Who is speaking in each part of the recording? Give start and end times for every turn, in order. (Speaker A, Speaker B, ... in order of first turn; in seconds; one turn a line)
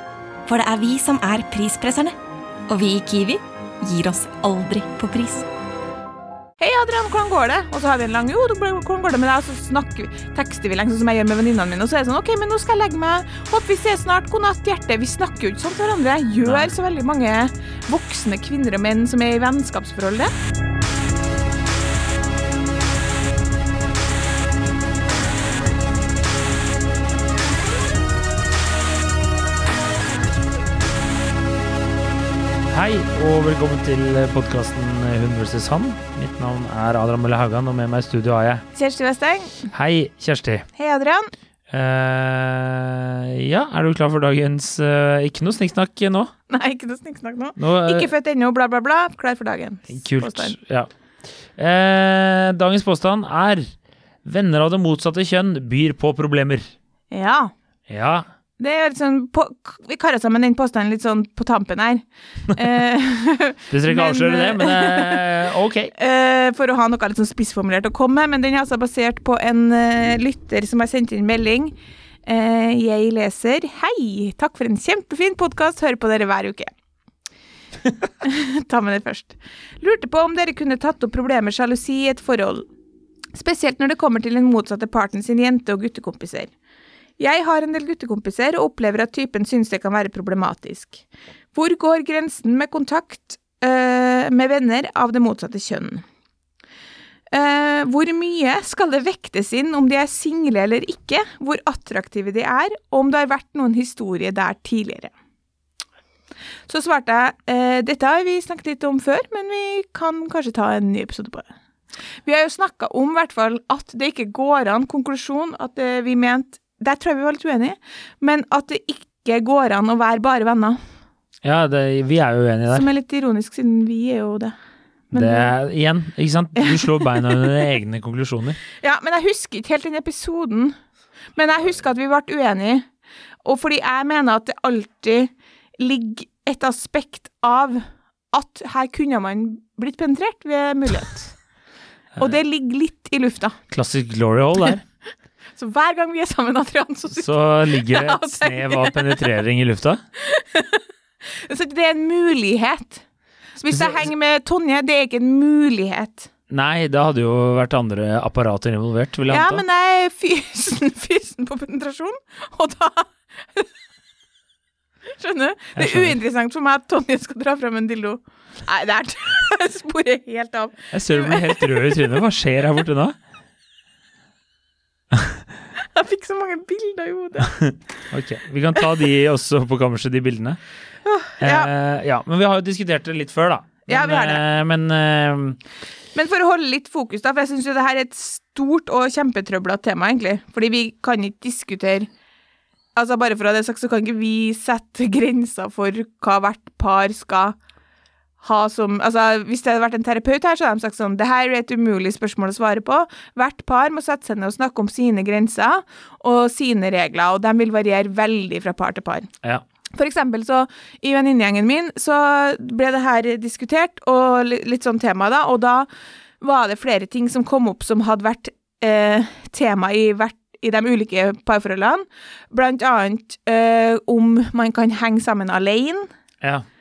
Speaker A: 0.5-2.1
Speaker A: 2.7-5.5
Speaker B: 6.6-20.3
Speaker C: 16.4-16.7
Speaker C: 32.7-38.6
Speaker B: 38.8-39.6
Speaker C: 39.7-40.7
Speaker B: 40.8-41.3
Speaker C: 41.7-46.3
Speaker B: 46.5-50.5
Speaker C: 47.6-48.1
Speaker C: 49.9-50.9
Speaker C: 51.6-56.7
Speaker B: 57.1-57.5
Speaker C: 57.9-58.3
Speaker B: 58.6-65.2
Speaker C: 63.7-65.9
Speaker B: 65.9-71.7
Speaker B: 72.3-76.7
Speaker B: 78.2-82.7
Speaker B: 83.3-86.5
Speaker B: 87.2-96.0
Speaker B: 97.3-105.1
Speaker B: 106.7-111.5
Speaker B: 112.2-120.8
Speaker C: 121.4-122.9
Speaker B: 122.7-124.5
Speaker B: 125.1-125.5
Speaker C: 125.1-128.6
Speaker B: 126.6-127.1
Speaker B: 128.8-130.8
Speaker B: 131.3-132.9
Speaker B: 133.4-141.3
Speaker B: 142.2-143.6
Speaker C: 143.7-144.8
Speaker B: 145.6-149.3
Speaker C: 147.2-150.0
Speaker B: 150.2-150.8
Speaker B: 151.4-153.0
Speaker B: 153.6-156.3
Speaker C: 153.6-154.1
Speaker C: 156.5-159.6
Speaker B: 159.3-163.7
Speaker B: 165.2-172.2
Speaker C: 165.8-166.2
Speaker C: 170.9-173.2
Speaker C: 175.1-175.4
Speaker B: 175.8-177.6
Speaker C: 177.5-180.6
Speaker B: 181.1-181.7
Speaker C: 181.4-185.6
Speaker B: 183.9-184.4
Speaker B: 186.1-192.1
Speaker B: 193.0-197.6
Speaker B: 198.4-209.3
Speaker B: 209.9-215.9
Speaker B: 216.4-226.1